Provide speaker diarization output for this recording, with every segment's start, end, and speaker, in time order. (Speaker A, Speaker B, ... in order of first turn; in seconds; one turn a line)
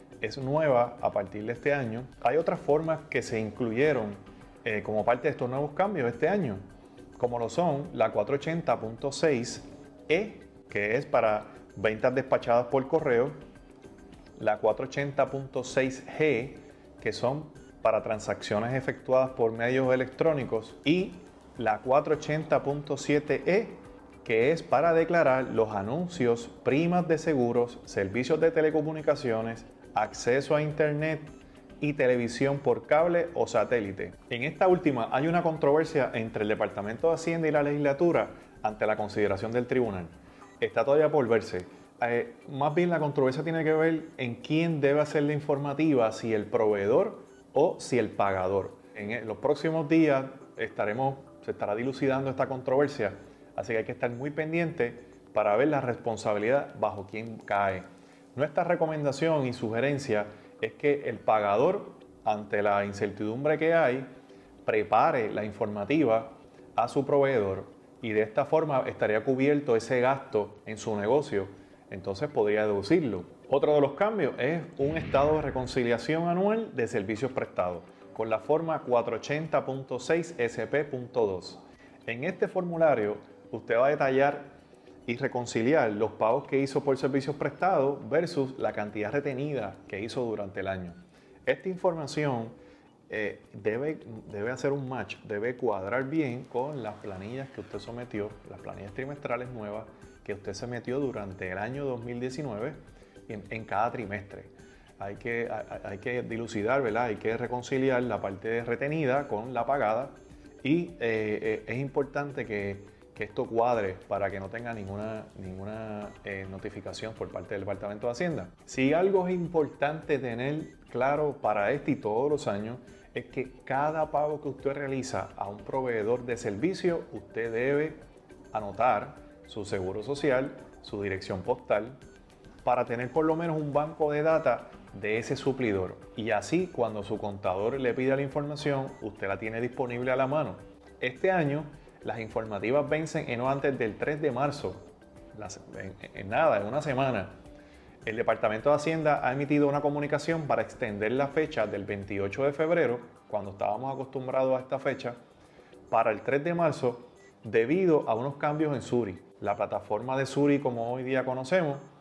Speaker A: 0.2-6.6
Speaker A: 7.2-13.4
Speaker A: 14.4-64.1
Speaker A: 64.6-92.6
Speaker A: 93.1-128.0
Speaker A: 128.5-132.0
Speaker A: 132.6-147.4
Speaker A: 148.1-155.2
Speaker A: 155.9-161.9